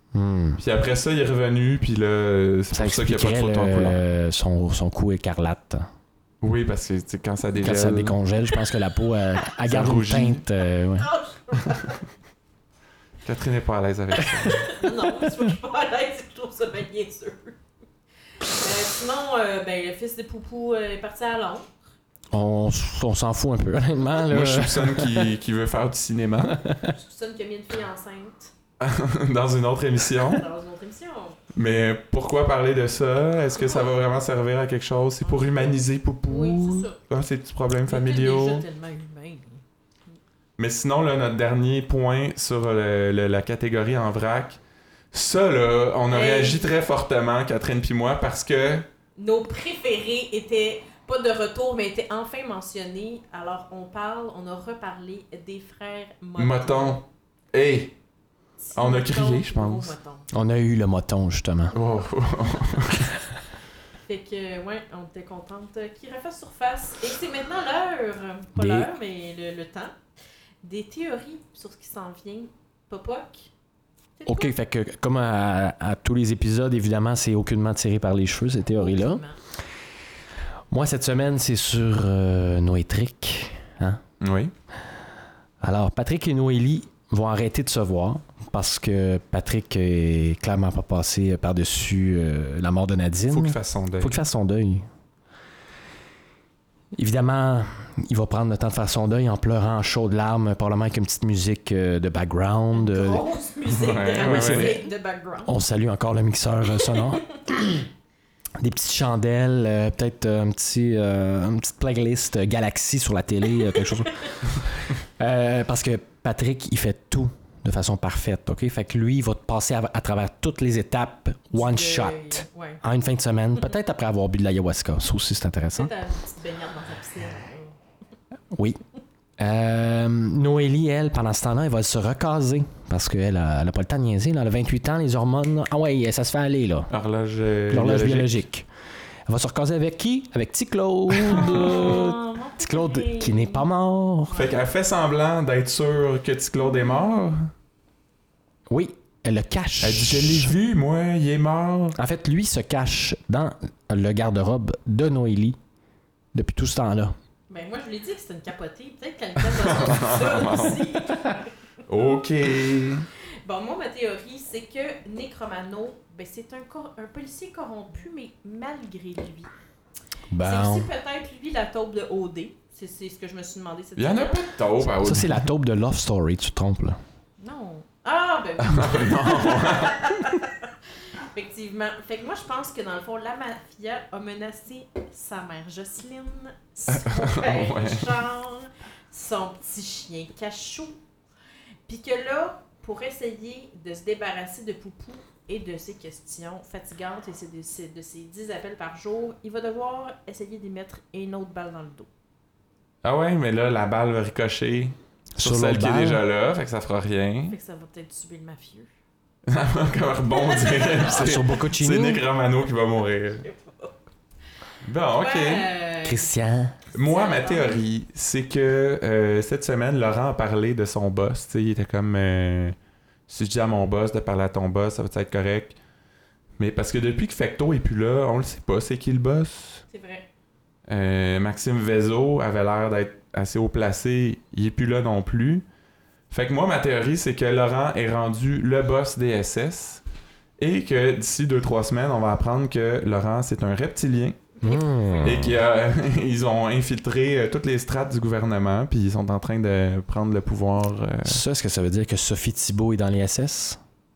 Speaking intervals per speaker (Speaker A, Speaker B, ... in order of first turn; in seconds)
Speaker A: 0.1-0.6, 2.7-5.8, 7.6-11.1, 22.3-25.3, 26.5-26.9, 60.3-61.8, 68.5-68.9, 74.3-79.2, 80.7-84.0, 85.6-94.8, 96.9-103.2, 104.2-104.8, 105.4-107.8, 108.6-125.9, 128.5-128.8, 129.4-136.9, 137.7-138.7, 139.3-144.4, 148.7-150.5, 151.9-155.6, 156.3-157.2, 170.3-170.9, 175.0-177.0, 205.3-206.2, 210.9-212.2, 216.0-216.8, 244.6-245.6, 251.2-253.8
Speaker B: 0.6-4.0, 6.4-8.2, 9.6-10.4, 13.2-14.6, 24.3-26.6, 28.8-30.4, 31.5-38.6, 40.6-44.6, 45.1-48.9, 56.4-57.9, 58.7-59.9, 61.7-63.1, 84.2-84.5, 93.3-94.2, 103.7-104.8, 136.9-138.4, 141.3-141.6, 144.3-147.5, 149.8-152.0, 159.7-160.8, 161.9-163.1, 174.0-175.4, 178.6-180.0, 186.9-188.1, 203.0-207.6, 209.5-213.4, 214.8-215.7, 216.9-222.8, 223.3-225.8, 226.6-229.8, 230.9-235.6, 236.3-240.0, 240.6-244.4, 245.2-251.4
Speaker C: 11.0-12.0, 14.4-17.6, 18.4-21.7, 26.9-28.5, 30.2-31.4, 33.6-33.9, 35.2-37.0, 37.8-39.6, 46.1-46.7, 49.2-57.0, 58.6-60.2, 64.0-69.9, 70.6-73.5, 74.2-74.5, 78.7-79.4, 102.7-105.5, 113.7-114.4, 121.5-122.8, 125.7-127.8, 141.3-143.7, 144.3-144.6, 157.5-161.3, 163.4-169.5, 170.4-174.5, 177.4-180.7, 181.3-191.0, 191.9-202.1, 207.5-208.9, 210.3-211.1, 213.4-213.9, 215.1-216.3, 217.0-217.8, 229.9-230.3, 244.6-245.4